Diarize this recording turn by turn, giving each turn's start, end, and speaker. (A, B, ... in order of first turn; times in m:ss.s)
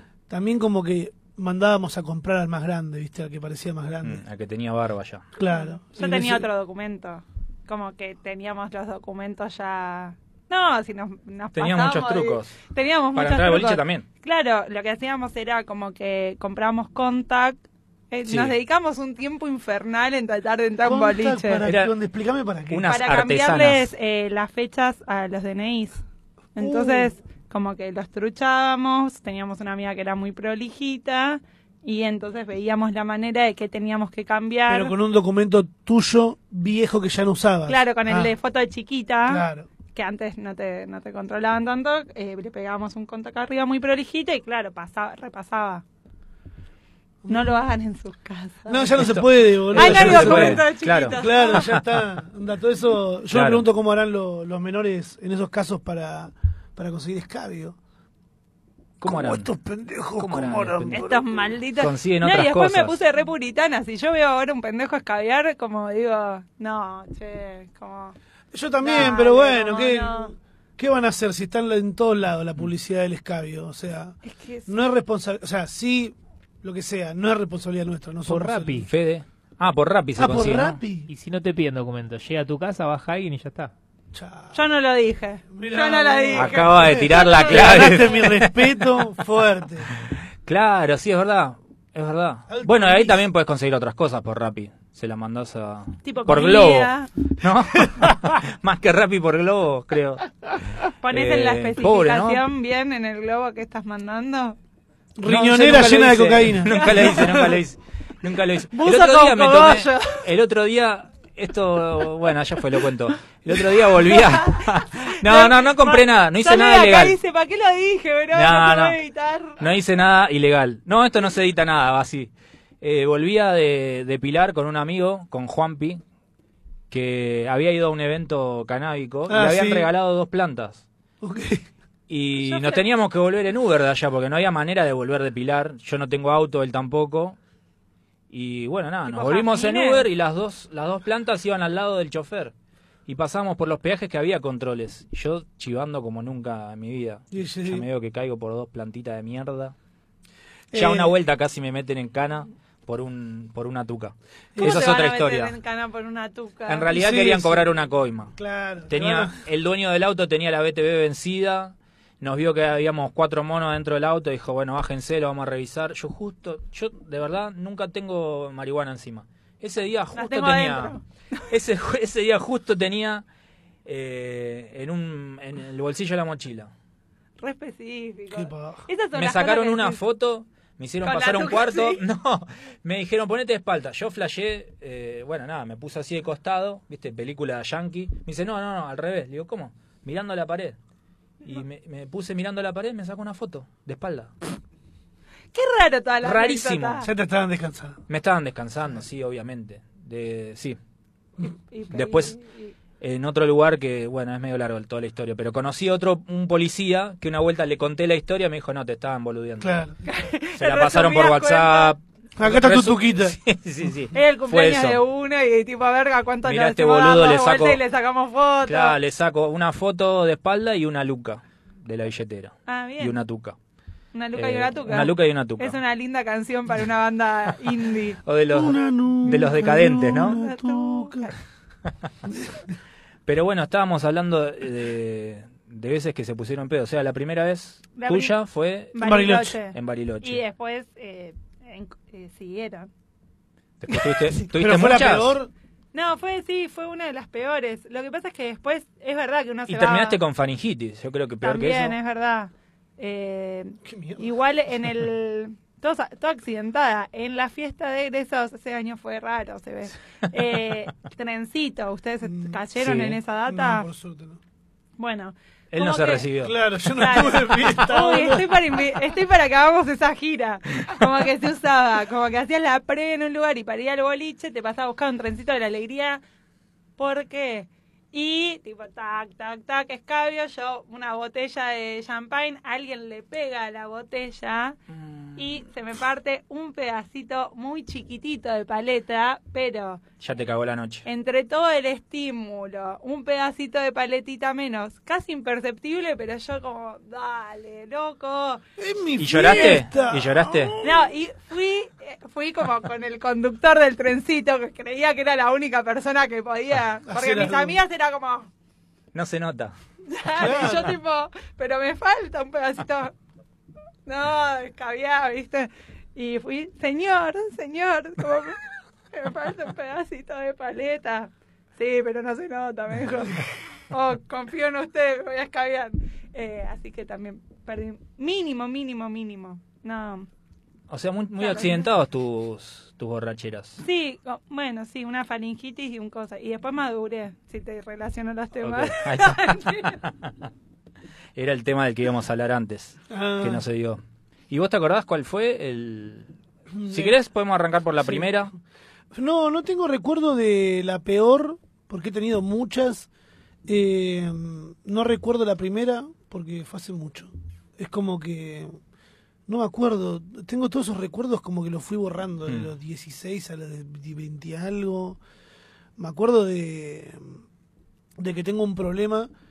0:00.3-0:04.2 A
0:04.0-0:05.2 B
0:05.4-0:06.5 A
0:05.5-0:17.6 C
0:11.6-0:12.6 B
0:13.2-0:14.0 B
0:18.1-0:21.6 C
0:18.3-0:18.5 B
0:20.8-0:22.9 A
0:21.6-0:21.9 B
0:22.7-0:23.9 B
0:22.9-0:26.0 C
0:26.6-0:35.0 C
0:26.6-0:27.1 A
0:34.7-0:38.3 A
0:37.7-0:45.8 C
0:39.3-0:39.7 A
0:47.2-0:47.5 A
0:47.3-0:49.0 C
0:48.7-0:57.8 A
0:49.0-0:51.8 B
0:49.7-0:51.7 C
0:53.3-0:53.6 B
0:59.0-0:59.5 B
0:59.0-1:01.4 A
1:00.2-1:01.0 B
1:00.9-1:08.2 C
1:01.8-1:03.0 B
1:08.5-1:14.2 A
1:08.8-1:10.3 C
1:14.3-1:14.7 C
1:14.7-1:18.9 A
1:18.3-1:18.9 D
1:18.9-1:20.8 B
1:20.2-1:21.1 A
1:21.1-1:23.7 D
1:24.1-1:24.6 A
1:24.5-1:28.3 C
1:25.5-1:29.9 A
1:26.3-1:29.0 B
1:30.0-1:40.3 B
1:32.5-1:33.2 A
1:36.0-1:37.1 C
1:41.0-1:44.6 C
1:41.1-1:42.4 B
1:45.2-1:47.5 A
1:45.2-1:57.2 B
1:46.7-1:47.6 C
1:48.7-1:50.2 C
1:53.7-1:59.6 C
1:58.3-1:59.0 B
1:59.6-2:06.0 B
2:06.9-2:10.8 B
2:09.3-2:09.9 A
2:11.2-2:11.7 A
2:12.1-2:17.4 B
2:12.4-2:12.8 C
2:18.3-2:22.5 B
2:19.1-2:20.1 C
2:23.1-2:29.8 B
2:27.3-2:27.8 A
2:30.7-2:31.1 A
2:30.7-2:35.5 B
2:34.5-2:34.8 A
2:34.6-2:36.9 C
2:36.7-2:38.3 B
2:36.9-2:37.6 A
2:38.4-2:39.4 A
2:38.9-2:51.0 B
2:50.1-2:51.4 C
2:51.5-2:53.2 B
2:53.8-2:56.7 B
2:57.4-3:00.0 C
2:58.3-2:58.9 A
2:59.2-3:10.8 B
3:01.0-3:02.0 C
3:11.4-3:14.3 B
3:15.5-3:17.1 C
3:16.2-3:17.1 B
3:17.0-3:18.0 A
3:18.1-3:20.8 B
3:21.7-3:22.7 C
3:21.9-3:22.4 B
3:23.0-3:29.7 B
3:29.6-3:30.0 A
3:30.1-3:31.9 C
3:30.6-3:35.0 B
3:32.4-3:33.4 A
3:34.1-3:39.0 C
3:36.4-3:37.8 B
3:38.7-3:43.6 B
3:42.7-3:43.2 C
3:44.1-3:48.2 C
3:44.4-3:45.8 B
3:48.2-3:50.4 B
3:48.5-3:51.3 A
3:50.1-3:51.3 C
3:52.3-3:52.6 A
3:53.3-3:59.0 B
3:58.0-3:58.3 C
3:58.9-4:02.9 C
3:59.0-3:59.6 A
3:59.7-4:00.4 B
4:03.8-4:05.3 B
4:03.9-4:04.3 C
4:04.5-4:05.5 A
4:05.9-4:10.2 C
4:09.7-4:12.0 B
4:11.4-4:23.9 C
4:13.8-4:14.3 A
4:22.2-4:22.6 A
4:22.8-4:23.2 B
4:23.5-4:24.4 A
4:25.0-4:26.3 C
4:25.7-4:26.6 B
4:26.4-4:28.8 A
4:27.0-4:36.2 C
4:37.0-4:44.8 C
4:44.9-4:45.6 B
4:45.4-4:50.0 C
4:50.2-4:51.0 B
4:51.1-4:58.6 C
4:58.8-5:01.1 A
4:59.2-5:00.8 B
5:00.8-5:08.5 C
5:07.1-5:07.8 A
5:09.1-5:09.7 B
5:10.1-5:13.1 C
5:10.4-5:11.0 A
5:14.1-5:30.3 C
5:30.9-5:33.8 B
5:31.4-5:31.9 C
5:33.8-5:40.0 C
5:38.6-5:40.3 B
5:41.4-5:46.3 B
5:43.1-5:43.6 A
5:46.7-5:47.2 A
5:46.9-5:48.5 B
5:48.0-5:48.3 A
5:49.1-5:53.1 A
5:53.7-5:58.7 A
5:59.5-6:05.2 A
6:06.0-6:07.4 A
6:08.2-6:09.3 A